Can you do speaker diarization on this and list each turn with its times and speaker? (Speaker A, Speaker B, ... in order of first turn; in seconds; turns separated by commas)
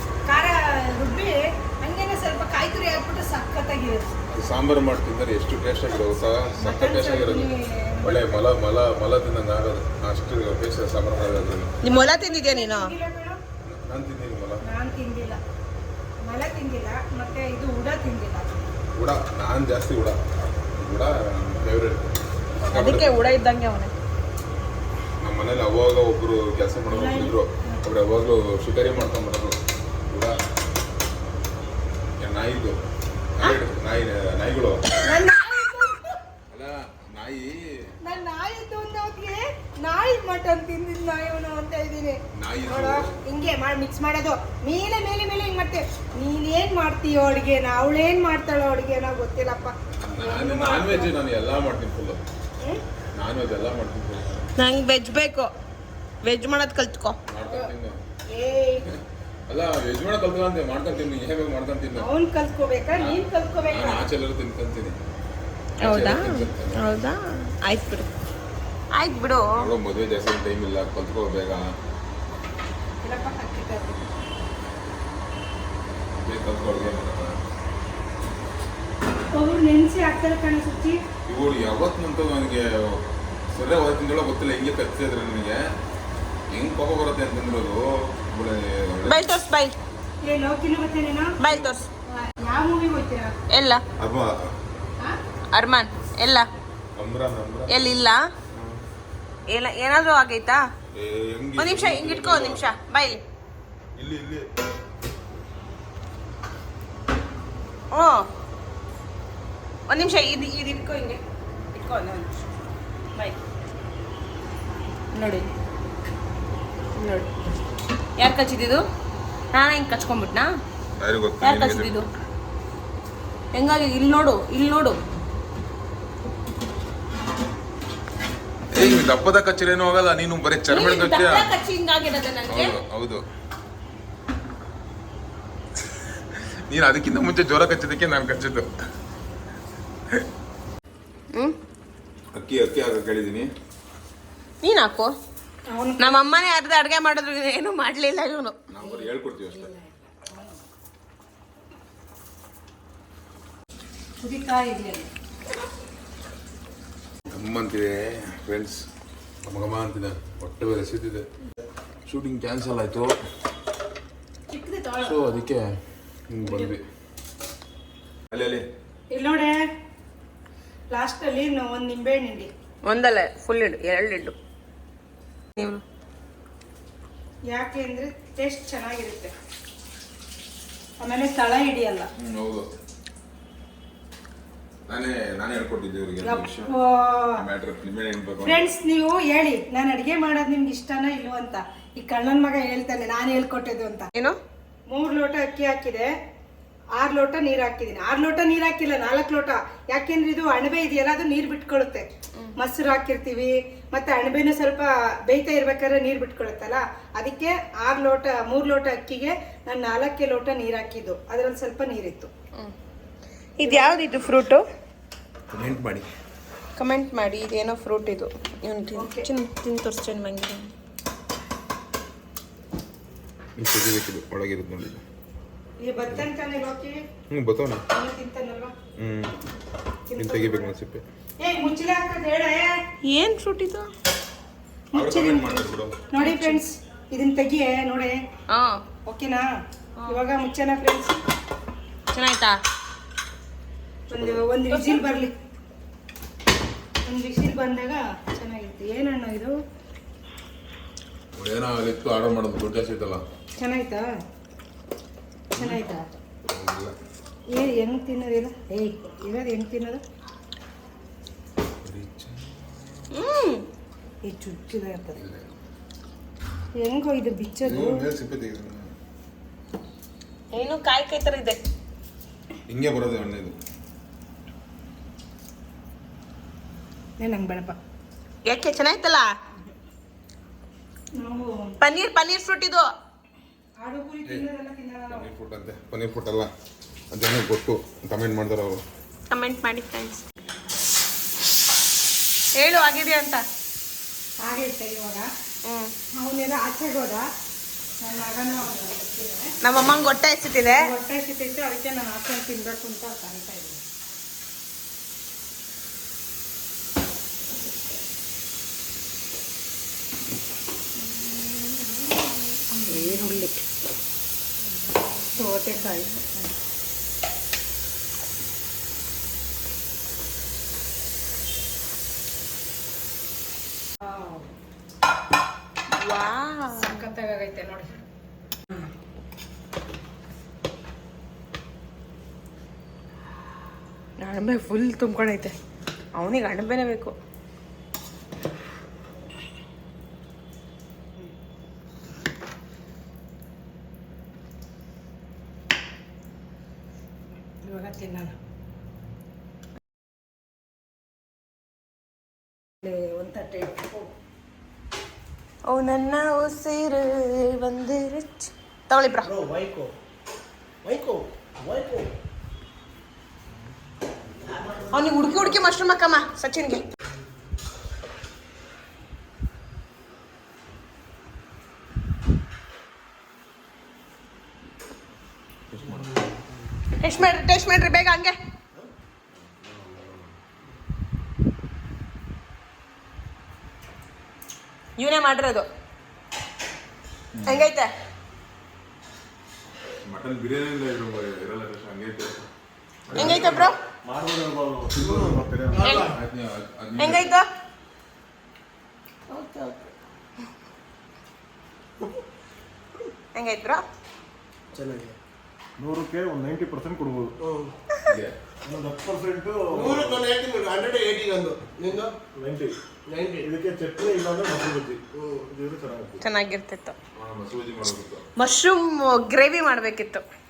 Speaker A: 0.3-4.1, Speaker B: 4.3-11.7, Speaker A: 6.6-8.4, Speaker C: 11.8-12.9, Speaker A: 12.2-13.4, Speaker B: 13.6-14.6, Speaker A: 14.6-15.4, Speaker A: 16.3-18.6, Speaker B: 18.9-20.2, Speaker B: 20.8-22.1, Speaker C: 22.6-23.9, Speaker B: 22.7-23.1, Speaker B: 25.2-29.6, Speaker A: 26.9-27.8, Speaker B: 30.1-30.4, Speaker B: 32.2-32.8, Speaker B: 33.4-34.8, Speaker A: 35.0-36.1, Speaker B: 36.5-37.6, Speaker A: 38.0-51.1, Speaker B: 42.4-43.1, Speaker B: 50.0-52.2, Speaker B: 53.1-54.5, Speaker C: 54.6-55.5, Speaker C: 56.2-57.2, Speaker B: 57.3-58.0, Speaker C: 58.4-58.8, Speaker B: 59.5-62.1, Speaker A: 62.0-64.0, Speaker B: 63.0-65.0, Speaker B: 65.8-66.8, Speaker C: 65.8-68.1, Speaker C: 68.9-69.5, Speaker B: 69.5-71.7, Speaker A: 73.0-74.1, Speaker B: 76.2-77.3, Speaker A: 79.3-81.0, Speaker B: 81.3-85.6, Speaker B: 86.5-89.2, Speaker C: 89.0-89.7, Speaker A: 90.2-91.3, Speaker C: 91.4-91.9, Speaker B: 91.4-91.7, Speaker A: 92.1-93.3, Speaker C: 93.5-93.8, Speaker B: 94.0-94.5, Speaker C: 95.5-96.5, Speaker B: 97.0-97.7, Speaker C: 97.7-98.2, Speaker B: 98.5-98.8, Speaker C: 99.5-100.6, Speaker B: 100.9-102.7, Speaker C: 101.6-103.2, Speaker B: 104.0-104.4, Speaker C: 107.9-108.3, Speaker C: 109.9-111.2, Speaker C: 111.7-112.3, Speaker C: 115.1-115.5, Speaker C: 117.0-117.3, Speaker C: 118.2-118.8, Speaker C: 119.5-120.5, Speaker B: 121.0-122.0, Speaker C: 121.4-122.1, Speaker C: 123.5-125.0, Speaker B: 128.7-131.5, Speaker C: 130.7-132.8, Speaker B: 132.5-133.2, Speaker B: 136.3-138.7, Speaker B: 142.3-143.5, Speaker C: 144.6-145.1, Speaker A: 145.7-146.1, Speaker C: 146.0-148.5, Speaker B: 148.7-149.7, Speaker A: 148.8-150.6, Speaker A: 154.2-155.1, Speaker B: 157.3-158.8, Speaker B: 159.4-161.2, Speaker B: 162.1-163.1, Speaker A: 164.5-164.9, Speaker B: 165.0-165.7, Speaker B: 166.3-166.8, Speaker B: 168.3-168.6, Speaker A: 169.1-169.6, Speaker A: 170.9-172.5, Speaker C: 172.8-174.3, Speaker C: 175.6-175.8, Speaker A: 177.5-179.3, Speaker A: 181.0-182.1, Speaker B: 182.2-182.7, Speaker B: 184.9-186.7, Speaker A: 186.2-187.4, Speaker B: 187.3-188.7, Speaker A: 188.4-194.1, Speaker A: 194.9-196.1, Speaker A: 197.0-202.0, Speaker A: 202.6-212.3, Speaker C: 213.6-214.6, Speaker A: 213.6-214.0, Speaker B: 215.5-216.1, Speaker C: 216.8-220.7, Speaker A: 218.9-219.3, Speaker B: 223.6-225.0, Speaker A: 225.8-227.0, Speaker B: 227.3-227.8, Speaker A: 227.9-228.7, Speaker B: 229.0-229.3, Speaker A: 230.1-230.7, Speaker B: 230.2-231.0, Speaker A: 231.4-232.8, Speaker C: 233.0-233.9, Speaker A: 234.9-238.2, Speaker B: 234.9-236.0, Speaker C: 236.2-236.6, Speaker C: 238.5-238.8, Speaker A: 239.1-239.5, Speaker A: 240.1-241.2, Speaker C: 242.1-242.6, Speaker A: 244.1-245.3, Speaker B: 244.1-244.4, Speaker C: 244.7-245.0, Speaker A: 247.1-249.5, Speaker B: 251.4-253.2, Speaker A: 253.6-254.0, Speaker A: 255.6-256.0, Speaker B: 256.5-256.9, Speaker A: 257.5-260.0, Speaker B: 261.8-263.1, Speaker C: 263.1-263.6, Speaker A: 264.2-265.2, Speaker B: 265.2-265.4, Speaker A: 266.8-268.0, Speaker B: 267.6-268.9, Speaker C: 270.5-271.6, Speaker B: 272.7-273.5, Speaker A: 277.2-277.8, Speaker C: 278.4-279.3, Speaker A: 281.2-281.7, Speaker C: 281.8-282.9, Speaker A: 283.8-285.2, Speaker B: 285.1-286.5, Speaker B: 287.1-288.8, Speaker C: 289.3-290.2, Speaker C: 292.6-293.4, Speaker A: 294.4-295.3, Speaker C: 295.6-295.9, Speaker A: 296.1-297.2, Speaker A: 298.0-299.5, Speaker C: 299.6-300.8, Speaker A: 300.8-303.8, Speaker C: 311.1-313.4, Speaker A: 312.8-313.5, Speaker C: 315.0-316.4, Speaker A: 315.3-316.1, Speaker A: 324.0-324.5, Speaker C: 325.9-327.1, Speaker A: 326.8-327.9, Speaker C: 334.2-335.6, Speaker C: 336.1-337.1, Speaker A: 347.6-348.3, Speaker A: 352.8-354.1, Speaker C: 355.7-359.3, Speaker D: 364.6-364.9, Speaker C: 364.9-366.8, Speaker B: 375.7-376.1, Speaker C: 377.0-378.4, Speaker C: 385.0-385.7, Speaker B: 387.3-387.7, Speaker C: 387.4-387.9, Speaker B: 390.0-392.4, Speaker D: 393.1-396.0, Speaker B: 393.1-393.6, Speaker C: 393.1-393.8, Speaker E: 394.9-396.1, Speaker C: 395.8-396.1, Speaker B: 396.0-397.3, Speaker C: 397.0-397.5, Speaker C: 399.3-399.9, Speaker C: 403.3-403.8, Speaker E: 404.7-405.1, Speaker D: 405.8-407.3, Speaker E: 407.4-407.7, Speaker B: 408.1-408.3, Speaker D: 408.6-410.2, Speaker E: 409.7-412.1, Speaker D: 412.3-412.8, Speaker E: 413.1-413.5, Speaker D: 413.4-416.2, Speaker C: 416.2-416.9, Speaker B: 417.1-418.2, Speaker C: 418.4-420.2